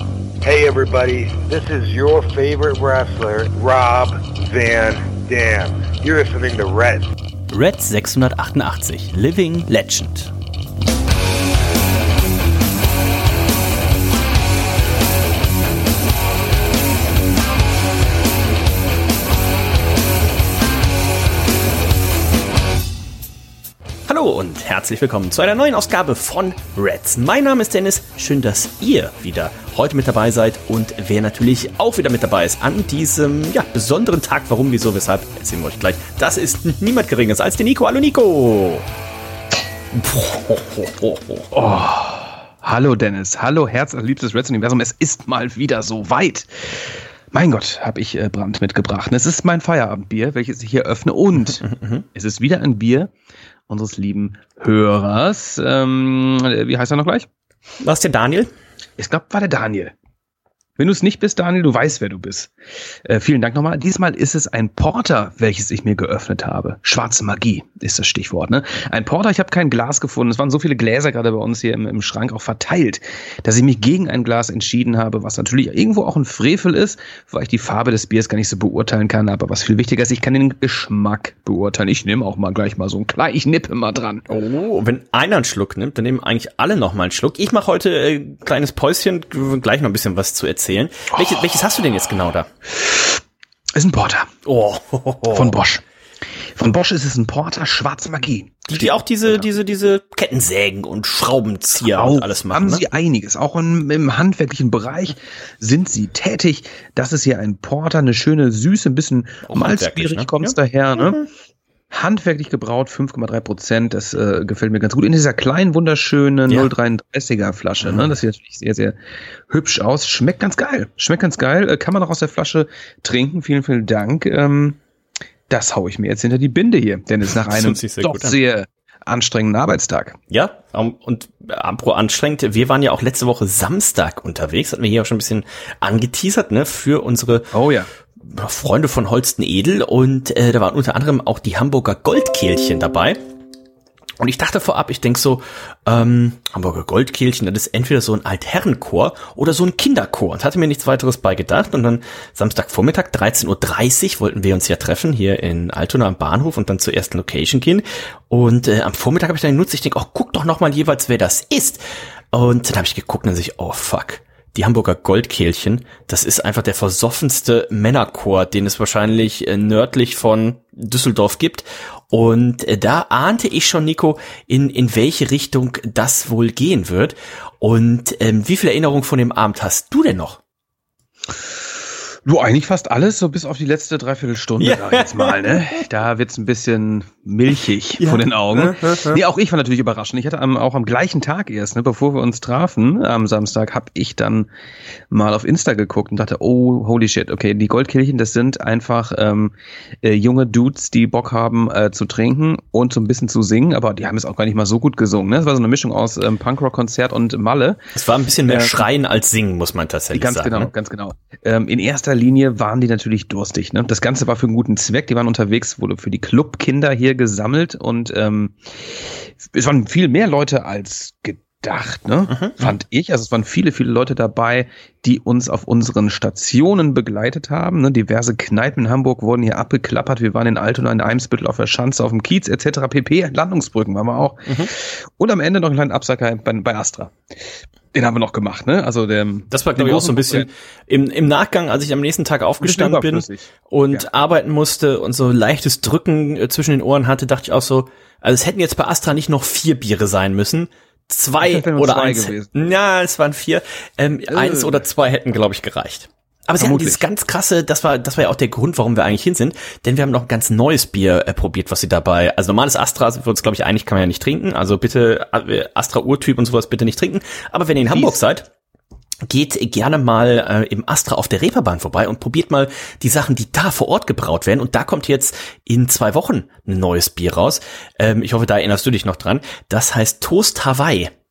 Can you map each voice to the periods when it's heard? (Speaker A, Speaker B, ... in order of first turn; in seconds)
Speaker A: 0.4-7.1
Speaker B: 7.5-10.3, 24.1-38.9, 39.9-41.5, 51.6-52.0, 57.8-58.5, 84.3-92.5, 94.4-95.6, 98.7-102.9, 109.5-111.2, 127.5-128.4, 130.3-137.5, 138.2-143.2, 144.2-180.4, 184.6-185.6, 188.0-189.2, 207.9-210.7, 222.3-222.7, 239.5-268.5, 269.3-281.1
Speaker C: 41.5-53.1, 53.7-57.3, 59.0-59.9, 60.8-62.5, 63.0-84.2, 93.8-94.3, 95.3-95.8, 96.6-98.9, 101.8-111.2, 111.9-118.9, 119.5-124.8, 125.5-130.2, 137.5-137.9, 182.2-194.5, 195.1-207.8, 208.5-208.8, 210.1-237.2, 237.9-240.5, 242.6-244.1, 251.4-252.5, 254.3-254.8, 256.6-257.0, 267.9-268.2